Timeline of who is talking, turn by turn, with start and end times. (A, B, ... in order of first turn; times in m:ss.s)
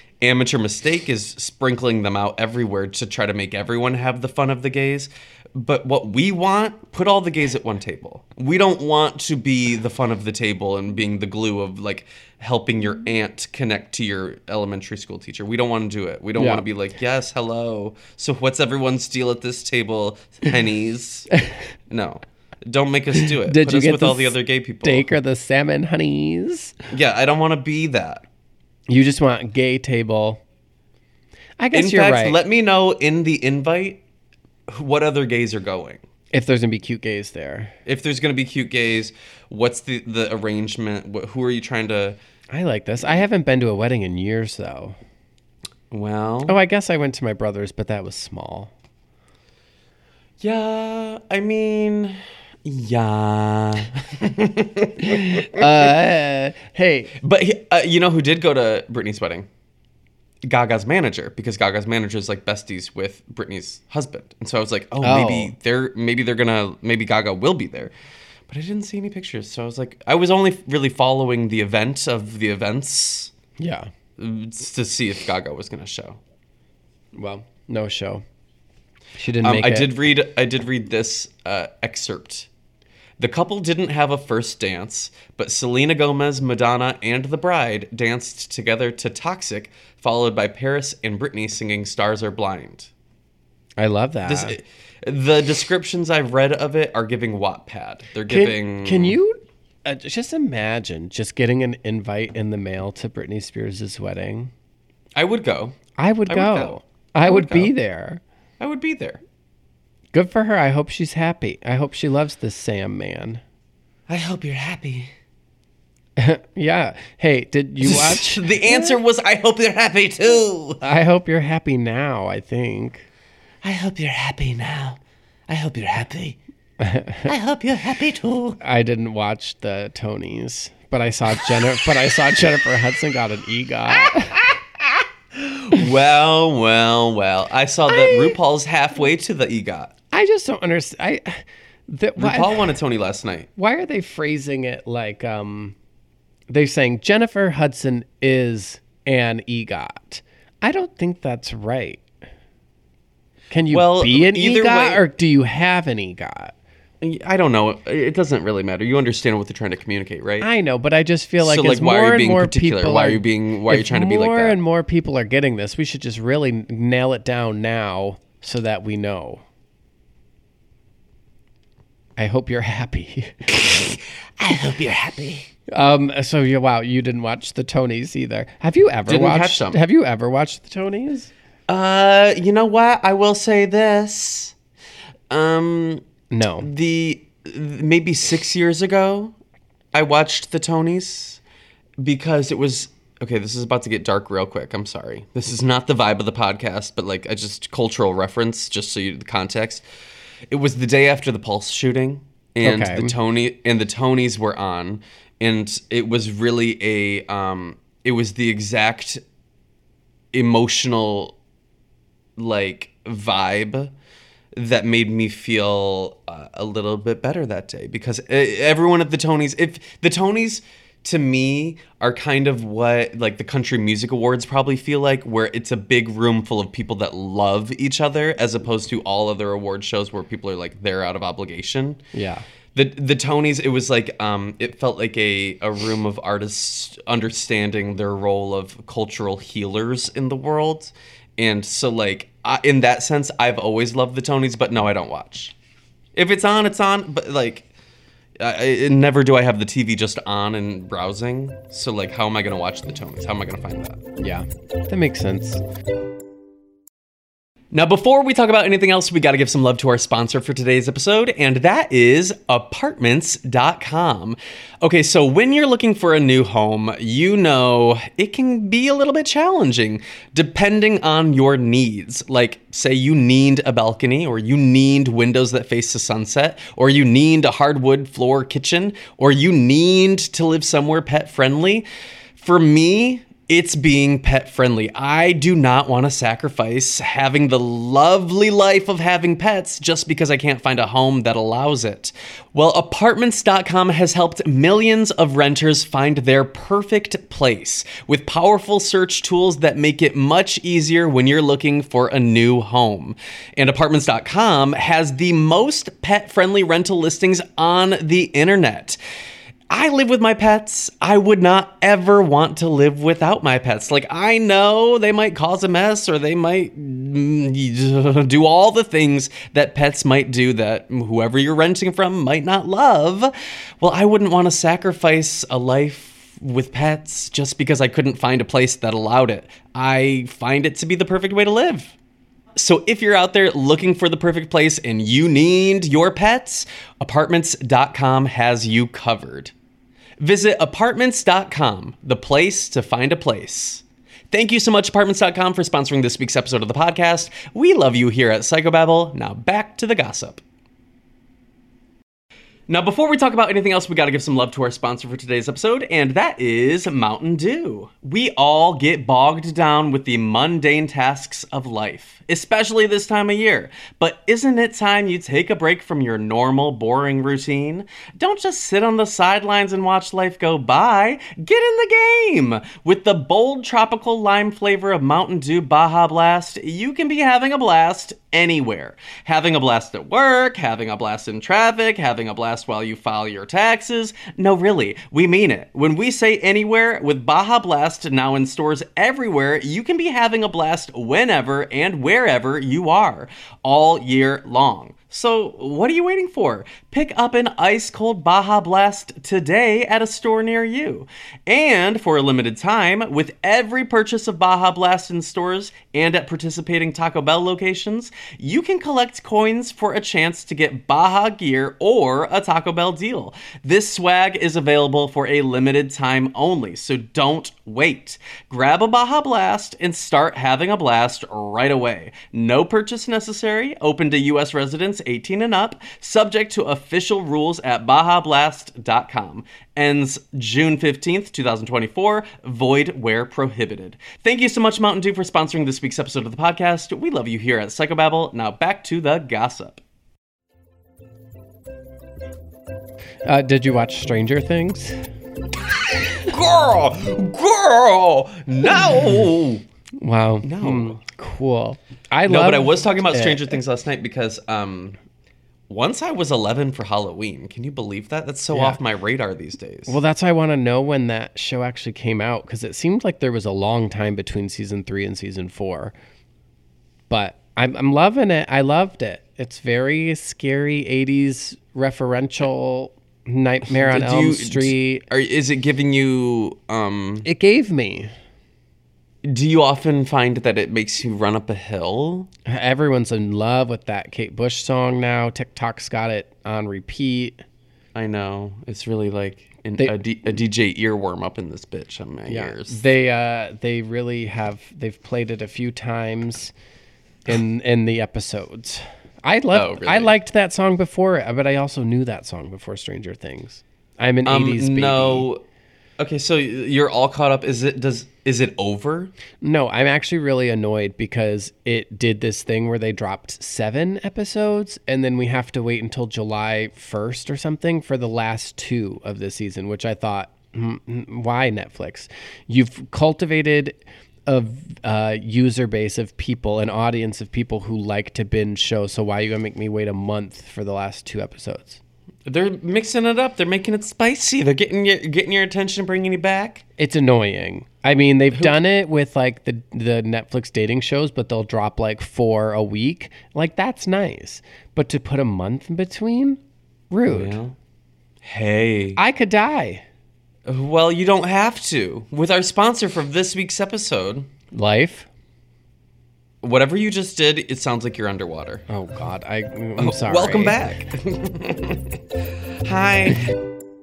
0:00.2-0:21.3 A
0:16.4-0:16.6 B
0:21.9-0:25.1 A
0:23.2-0:26.7 B
0:26.9-0:28.2 A
0:28.9-0:30.4 B
0:31.6-0:32.4 B
0:31.7-0:34.0 A
0:34.7-0:36.0 A
0:36.3-0:37.7 B
0:37.8-0:42.2 A
0:42.5-0:45.0 B
0:45.9-0:46.6 A
0:46.4-0:48.7 B
0:50.4-0:55.6 A
0:55.1-0:57.1 B
0:57.2-0:59.5 A
1:00.4-1:07.9 A
1:05.0-1:05.5 B
1:08.5-1:13.3 A
1:13.6-1:13.9 B
1:14.2-1:16.2 A
1:17.1-1:18.2 B
1:19.2-1:19.9 B
1:19.4-1:22.5 A
1:23.2-1:32.9 A
1:33.8-1:34.6 B
1:34.2-1:39.2 A
1:38.3-1:44.5 B
1:45.2-1:47.7 A
1:46.0-1:48.2 B
1:48.6-1:49.2 A
1:50.1-1:53.4 B
1:54.1-1:55.1 A
1:56.2-1:59.0 B
1:57.8-2:00.8 A
2:00.8-2:03.0 B
2:03.6-2:06.4 A
2:06.8-2:07.3 B
2:07.2-2:08.6 A
2:08.6-2:14.4 B
2:14.0-2:14.6 A
2:15.3-2:19.9 A
2:17.9-2:18.4 B
2:20.1-2:22.7 B
2:22.2-2:23.5 A
2:23.6-2:25.7 B
2:26.5-2:32.0 B
2:33.5-2:36.5 B
2:33.7-2:35.0 A
2:37.0-2:40.5 A
2:40.4-2:49.4 B
2:41.4-2:44.6 A
2:52.2-2:53.4 B
2:53.5-2:55.5 A
2:55.7-3:01.3 B
2:59.1-2:59.8 A
3:01.7-3:04.5 A
3:05.3-3:06.0 A
3:06.3-3:06.7 B
3:06.6-3:09.3 A
3:09.9-3:11.4 A
3:12.0-3:19.8 A
3:20.5-3:29.2 A
3:22.6-3:23.1 B
3:30.3-3:31.4 A
3:32.4-3:33.9 A
3:34.5-3:52.0 A
3:52.1-3:52.4 B
3:52.7-4:05.5 A
4:06.1-4:07.7 A
4:08.4-4:14.0 A
4:14.2-4:15.6 B
4:17.7-4:41.8 A
4:42.4-5:09.0 A
5:09.7-5:31.9 A
5:32.6-5:39.5 A
5:40.2-5:50.4 A
5:52.7-7:19.8 A
7:23.2-7:25.0 B
7:26.0-7:29.6 A
7:30.0-7:33.6 B
7:30.4-7:31.0 A
7:32.2-7:35.0 A
7:35.7-7:40.0 A
7:38.5-7:38.8 B
7:39.9-7:45.9 B
7:47.1-7:55.0 B
7:53.7-7:57.3 A
7:57.2-7:58.1 B
7:59.2-8:02.3 A
8:02.4-8:07.4 B
8:07.9-8:12.8 A
8:12.3-8:16.5 B
8:17.2-8:25.3 B
8:19.5-8:20.1 A
8:24.2-8:25.4 A
8:26.0-8:29.1 A
8:29.4-8:51.8 B
8:52.2-8:56.6 A
8:56.8-9:07.4 B
9:07.1-9:07.6 A
9:08.2-9:09.0 A
9:09.0-9:09.8 B
9:10.4-9:14.3 A
9:14.5-9:15.1 B
9:16.4-9:18.6 A
9:18.7-9:20.6 B
9:19.8-9:22.0 A
9:22.6-9:23.3 A